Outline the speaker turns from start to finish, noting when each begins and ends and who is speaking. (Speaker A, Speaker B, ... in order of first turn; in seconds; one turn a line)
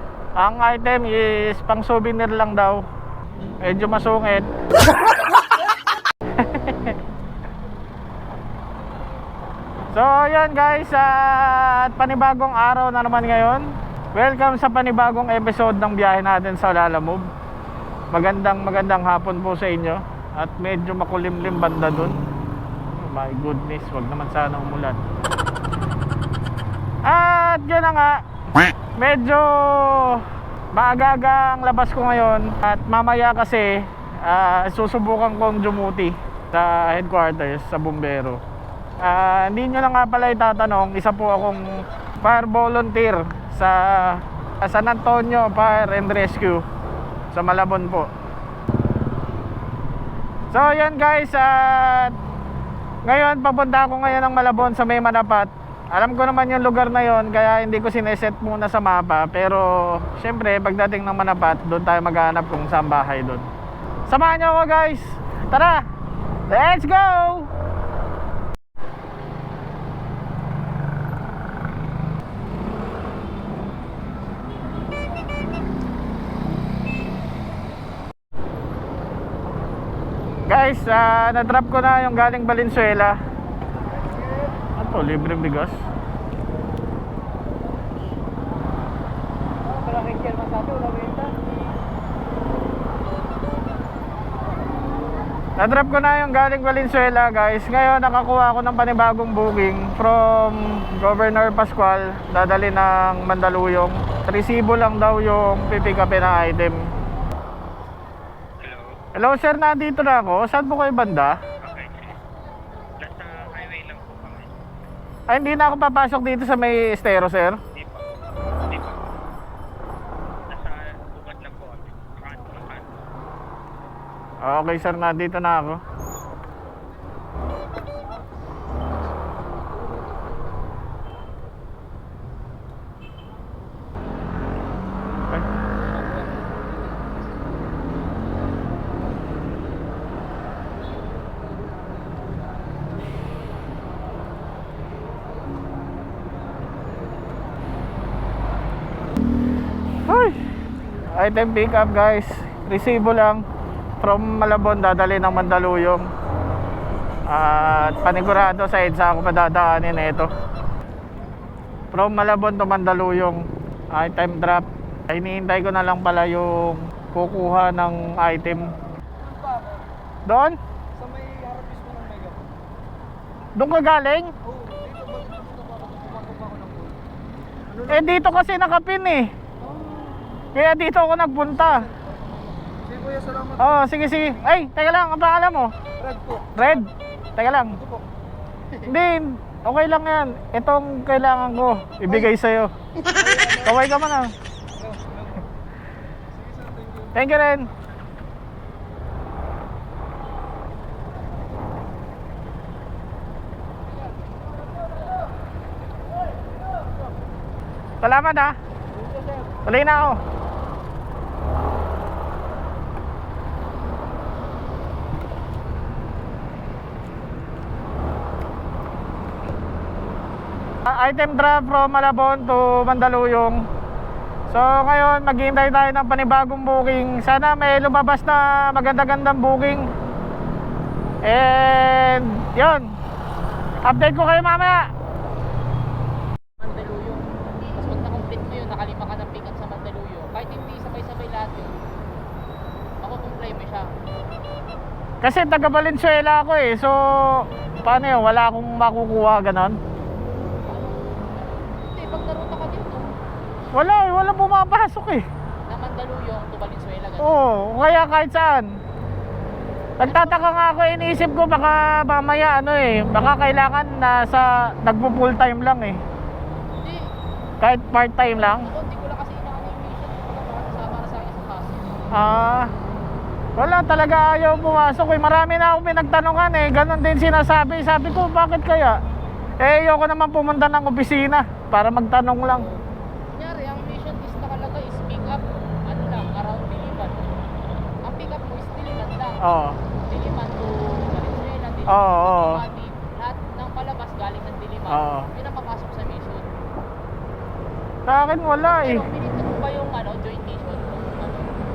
Speaker A: 0.4-2.8
Speaker A: 3.6-4.5
Speaker A: 6.3-7.0
Speaker A: 9.9-17.3
Speaker A: 18.1-22.2
Speaker A: 22.9-25.0
Speaker A: 27.1-28.2
Speaker A: 29.0-38.4
Speaker A: 39.0-46.6
Speaker A: 47.3-48.1
Speaker A: 50.5-52.2
Speaker A: 53.0-63.5
Speaker A: 64.1-65.8
Speaker A: 66.5-67.5
Speaker A: 80.5-83.2
Speaker A: 84.8-85.8
Speaker B: 89.8-91.3
Speaker C: 90.2-91.0
Speaker A: 95.6-106.8
Speaker D: 108.6-109.0
Speaker A: 109.2-111.4
Speaker D: 111.6-112.2
Speaker D: 113.0-114.5
Speaker A: 115.3-117.6
Speaker D: 117.7-119.2
Speaker D: 120.5-123.0
Speaker A: 124.4-125.8
Speaker A: 150.1-150.4
Speaker A: 151.1-153.4
Speaker A: 154.0-156.1
Speaker A: 157.3-160.3
Speaker A: 161.9-168.7
Speaker C: 169.2-169.9
Speaker A: 170.3-170.6
Speaker C: 171.0-172.4
Speaker A: 173.6-174.3
Speaker C: 174.5-177.0
Speaker C: 177.7-178.1
Speaker A: 177.9-179.3
Speaker A: 180.5-181.9
Speaker C: 182.8-183.7
Speaker A: 183.6-185.7
Speaker C: 186.0-186.7
Speaker A: 186.6-187.8
Speaker A: 188.8-192.7
Speaker C: 193.1-193.8
Speaker A: 193.5-194.3
Speaker C: 194.8-195.5
Speaker C: 196.3-197.1
Speaker A: 197.1-197.7
Speaker A: 208.0-208.6
Speaker A: 209.7-210.2
Speaker A: 220.9-223.6
Speaker A: 224.5-229.9
Speaker A: 231.2-232.9
Speaker A: 233.8-234.9
Speaker B: 236.6-241.8
Speaker B: 243.0-243.9
Speaker A: 245.2-249.8
Speaker B: 250.7-253.1
Speaker A: 253.7-255.2
Speaker B: 255.7-257.4
Speaker A: 257.2-258.8
Speaker A: 260.0-266.0
Speaker B: 260.0-261.3
Speaker A: 267.6-268.7
Speaker B: 268.4-271.9
Speaker A: 272.1-272.7
Speaker A: 273.6-279.0
Speaker A: 279.6-282.7
Speaker B: 282.5-282.8
Speaker B: 283.3-287.3
Speaker B: 288.0-296.5
Speaker A: 289.4-289.8
Speaker A: 291.9-292.6
Speaker A: 294.9-295.3
Speaker A: 298.1-299.1
Speaker B: 298.6-301.5